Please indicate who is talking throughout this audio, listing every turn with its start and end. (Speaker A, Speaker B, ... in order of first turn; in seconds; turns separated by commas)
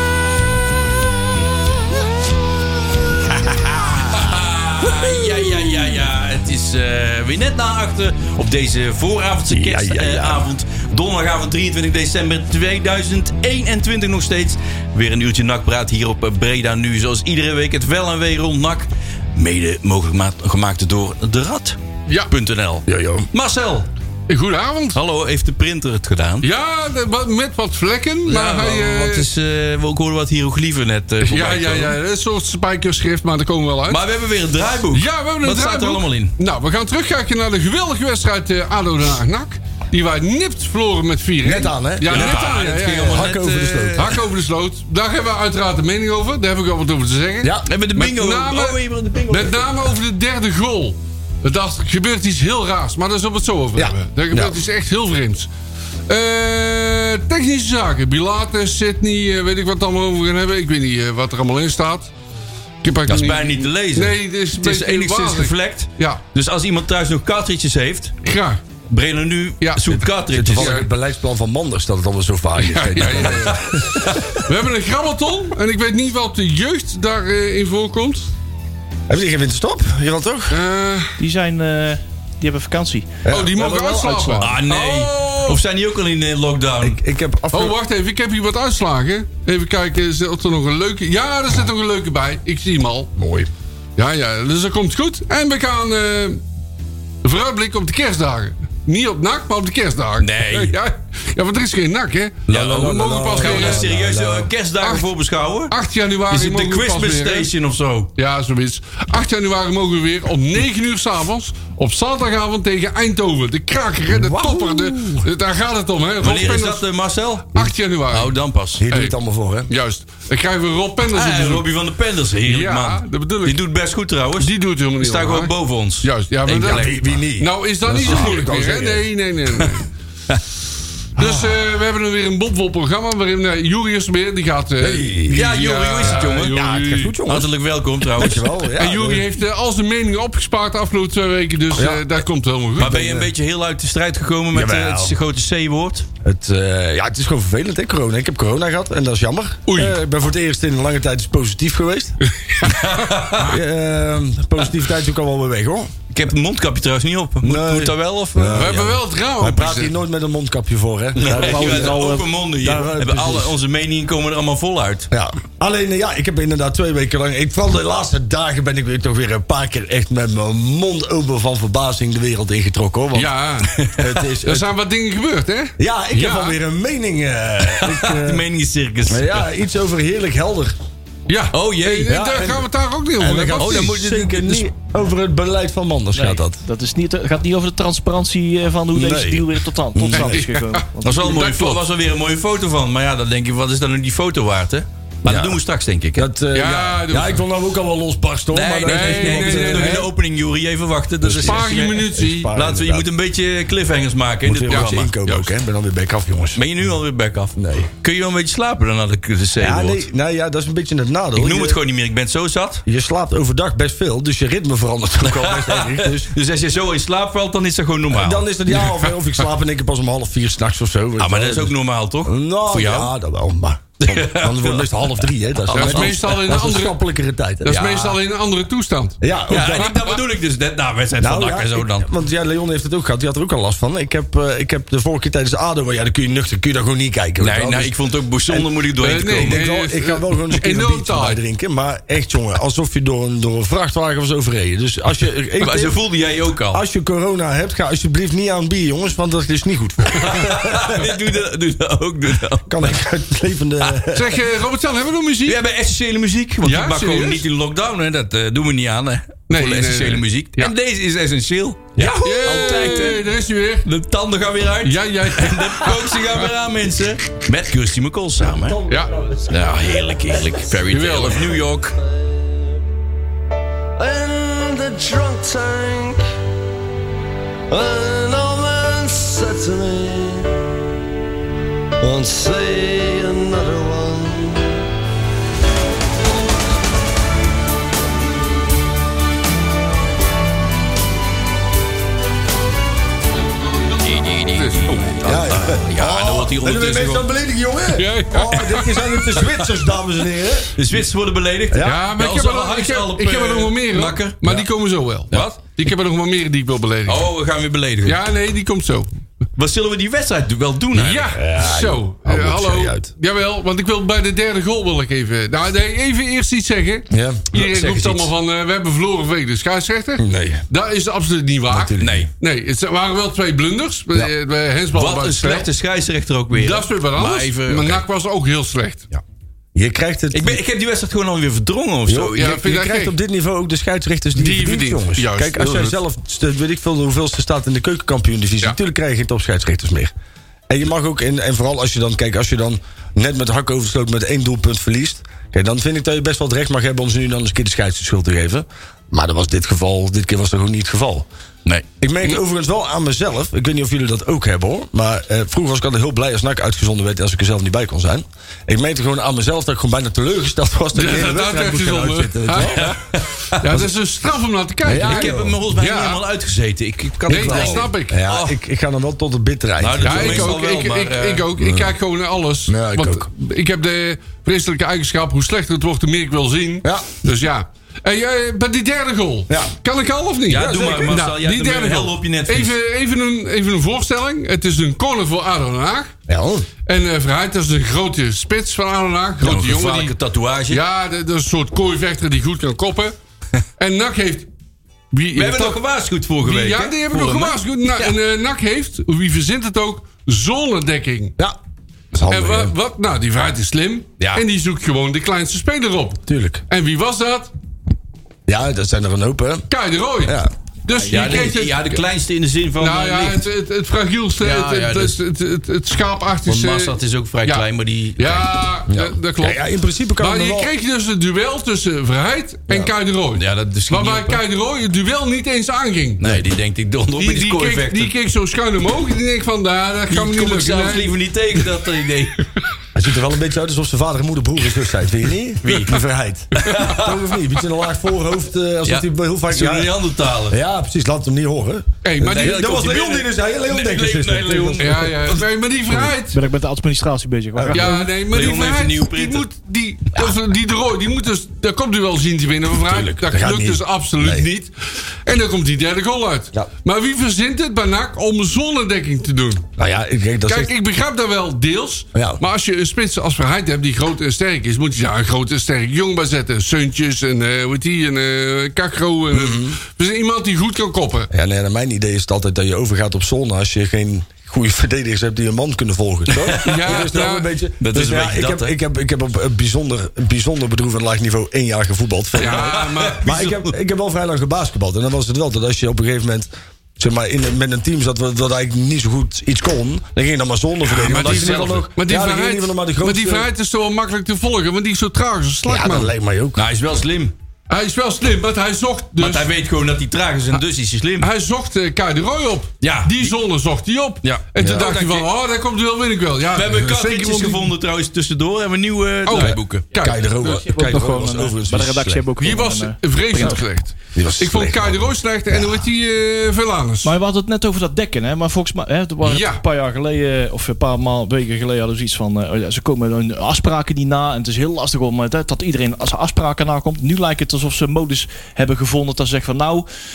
Speaker A: 3.4-4.2, Speaker B: 4.1-21.8, Speaker A: 4.8-5.3, Speaker A: 9.5-10.5, Speaker C: 22.1-22.3, Speaker B: 22.3-23.9, Speaker A: 22.9-23.3, Speaker C: 24.3-25.0, Speaker B: 24.9-26.5, Speaker C: 26.4-29.3, Speaker B: 28.3-32.0, Speaker C: 31.2-34.0, Speaker B: 33.9-36.3, Speaker C: 34.9-43.3, Speaker A: 41.4-42.5, Speaker B: 42.1-44.2, Speaker A: 43.1-44.1, Speaker C: 44.0-55.5, Speaker A: 47.4-47.7, Speaker B: 47.6-49.8, Speaker A: 53.8-54.6, Speaker C: 56.1-62.1, Speaker C: 62.8-66.2, Speaker B: 63.1-68.2, Speaker C: 68.2-68.6, Speaker B: 68.9-70.8, Speaker C: 69.6-69.9, Speaker A: 69.9-74.5, Speaker C: 70.5-70.9, Speaker C: 72.6-78.3, Speaker B: 73.0-74.4, Speaker A: 79.1-80.6, Speaker C: 80.5-81.2, Speaker D: 81.2-83.1, Speaker A: 83.2-84.5, Speaker C: 83.3-85.6, Speaker B: 84.4-87.0, Speaker A: 86.8-87.8, Speaker C: 87.5-93.1, Speaker A: 93.2-93.5, Speaker C: 94.0-96.4, Speaker C: 97.2-103.9, Speaker B: 100.2-100.8, Speaker A: 102.5-104.5, Speaker B: 102.5-105.7, Speaker C: 104.8-105.1, Speaker C: 105.7-107.5, Speaker B: 106.3-108.1, Speaker C: 108.2-116.9, Speaker A: 114.1-115.3, Speaker B: 116.2-117.5, Speaker C: 117.5-118.4, Speaker B: 118.1-118.8, Speaker A: 118.8-119.7, Speaker C: 118.9-119.2, Speaker C: 119.7-121.7, Speaker B: 121.0-127.2, Speaker C: 122.4-123.6, Speaker C: 124.4-129.9, Speaker A: 126.5-129.1, Speaker B: 128.0-128.3, Speaker C: 131.2-137.2, Speaker A: 131.2-131.7, Speaker A: 134.8-135.5, Speaker B: 135.3-136.5, Speaker A: 136.0-137.5, Speaker B: 137.3-138.5, Speaker A: 138.1-139.3, Speaker C: 138.8-143.0, Speaker A: 141.7-142.2, Speaker A: 142.8-143.3, Speaker B: 142.8-146.1, Speaker A: 144.5-145.2, Speaker A: 146.2-152.2, Speaker C: 149.7-150.0, Speaker C: 152.4-153.6, Speaker B: 152.6-153.6, Speaker A: 153.4-155.9, Speaker B: 156.1-159.0, Speaker A: 157.4-158.8, Speaker C: 158.5-159.9, Speaker A: 159.4-163.6, Speaker B: 161.2-165.1, Speaker D: 161.3-162.3, Speaker A: 165.1-173.3, Speaker C: 173.1-173.8, Speaker B: 173.6-174.1, Speaker A: 174.0-174.7, Speaker C: 174.4-176.6, Speaker A: 175.8-178.4, Speaker B: 177.7-179.5, Speaker A: 179.1-180.8, Speaker C: 181.3-183.9, Speaker B: 181.5-182.1, Speaker A: 182.1-182.7, Speaker A: 183.2-186.6, Speaker B: 183.6-184.7, Speaker D: 186.2-191.5, Speaker A: 188.9-190.5, Speaker C: 190.1-191.9, Speaker B: 191.0-196.3, Speaker A: 195.2-195.6, Speaker A: 196.2-200.1, Speaker C: 196.5-197.4, Speaker B: 198.5-205.1, Speaker C: 198.8-200.1, Speaker A: 201.2-203.1, Speaker C: 201.3-202.5, Speaker A: 204.4-206.6, Speaker C: 204.7-205.5, Speaker B: 206.6-210.1, Speaker A: 207.6-207.9, Speaker A: 209.6-211.8, Speaker B: 211.4-212.8, Speaker A: 212.9-216.3, Speaker B: 215.2-218.8, Speaker A: 218.1-227.9, Speaker B: 221.2-223.1, Speaker B: 224.0-224.9, Speaker B: 225.6-226.6, Speaker C: 225.7-227.0, Speaker B: 227.7-228.2, Speaker C: 227.7-230.0, Speaker A: 229.2-230.0, Speaker B: 229.5-232.1, Speaker A: 231.2-238.7, Speaker B: 237.4-239.6, Speaker C: 239.0-241.4, Speaker A: 239.3-246.0, Speaker B: 245.6-246.8, Speaker A: 246.7-251.2, Speaker B: 250.1-252.9, Speaker A: 252.7-254.4, Speaker C: 254.1-255.6, Speaker B: 255.5-263.2, Speaker C: 256.6-257.4, Speaker C: 259.5-260.7, Speaker A: 262.0-262.3, Speaker C: 262.0-263.9, Speaker B: 263.9-268.9, Speaker C: 264.8-266.5, Speaker C: 268.9-269.2, Speaker B: 269.5-271.9, Speaker C: 270.9-271.5, Speaker E: 271.9-272.6, Speaker E: 274.0-276.2, Speaker E: 277.7-280.6, Speaker E: 282.0-284.8, Speaker B: 294.0-297.2, Speaker C: 294.5-294.9, Speaker A: 295.2-300.8, Speaker C: 297.9-299.0, Speaker B: 298.5-299.9, Speaker B: 300.8-304.6, Speaker A: 301.7-302.0, Speaker C: 301.8-307.3, Speaker B: 305.3-305.6, Speaker B: 307.1-308.2, Speaker C: 308.0-309.1, Speaker B: 309.6-311.4, Speaker C: 310.9-325.7, Speaker A: 311.3-313.1, Speaker A: 317.1-317.5, Speaker B: 317.5-318.3, Speaker A: 320.2-320.6, Speaker A: 321.7-322.3, Speaker B: 322.0-322.3, Speaker B: 324.9-328.0, Speaker C: 326.5-329.1, Speaker A: 329.8-330.6, Speaker B: 330.3-332.6, Speaker A: 332.1-340.1, Speaker C: 332.4-333.1, Speaker C: 334.4-336.0, Speaker A: 340.7-351.3, Speaker A: 352.0-362.9, Speaker C: 360.9-366.2, Speaker B: 362.6-363.6, Speaker A: 364.8-365.6, Speaker B: 364.9-368.5, Speaker C: 367.3-368.2, Speaker A: 367.3-370.6, Speaker B: 369.8-371.5, Speaker C: 370.0-386.1, Speaker A: 371.6-371.9, Speaker A: 372.7-373.3, Speaker A: 376.8-377.2, Speaker A: 379.5-379.7, Speaker B: 380.5-382.7, Speaker A: 386.3-386.7, Speaker C: 386.9-390.1, Speaker B: 389.4-390.8, Speaker C: 390.7-393.1, Speaker C: 393.8-394.5, Speaker C: 395.1-395.8, Speaker B: 395.4-398.2, Speaker C: 396.4-401.3, Speaker A: 402.1-402.7, Speaker C: 402.3-407.5, Speaker B: 404.2-404.4, Speaker A: 406.3-406.6, Speaker A: 408.5-409.7, Speaker C: 409.7-412.0, Speaker A: 410.2-410.5, Speaker D: 410.9-411.4, Speaker B: 411.1-413.4, Speaker C: 412.8-417.6, Speaker B: 414.4-415.2, Speaker B: 416.5-418.5, Speaker C: 418.2-419.6, Speaker A: 418.9-420.7, Speaker C: 420.2-426.4, Speaker B: 423.4-424.4, Speaker B: 426.2-428.1, Speaker C: 427.1-431.9, Speaker B: 430.1-432.4, Speaker A: 432.9-445.2, Speaker B: 435.6-436.0, Speaker C: 436.6-437.0, Speaker B: 436.6-437.2, Speaker B: 438.9-440.6, Speaker C: 442.0-443.1, Speaker B: 442.2-445.4, Speaker C: 444.8-446.4, Speaker D: 446.3-448.1, Speaker A: 447.6-448.0, Speaker C: 447.7-454.7, Speaker B: 448.2-449.4, Speaker A: 452.8-454.5, Speaker C: 455.2-459.6, Speaker A: 459.8-460.7, Speaker C: 460.5-471.3, Speaker A: 462.1-462.4, Speaker A: 469.3-469.8, Speaker A: 471.3-493.5, Speaker B: 476.3-476.9, Speaker C: 476.6-477.5, Speaker B: 477.8-478.7, Speaker C: 482.4-483.3, Speaker B: 482.4-483.7, Speaker B: 490.9-491.9, Speaker C: 491.0-496.1, Speaker A: 495.7-496.6, Speaker B: 496.6-497.3, Speaker C: 497.7-499.5, Speaker B: 499.2-501.3, Speaker C: 501.2-507.8, Speaker B: 502.8-503.4, Speaker B: 504.2-505.3, Speaker A: 504.6-504.9, Speaker B: 506.6-509.9, Speaker C: 509.2-510.6, Speaker A: 509.3-512.3, Speaker D: 510.4-513.6, Speaker C: 512.4-517.1, Speaker A: 514.1-515.8, Speaker D: 517.0-529.9, Speaker C: 519.2-519.6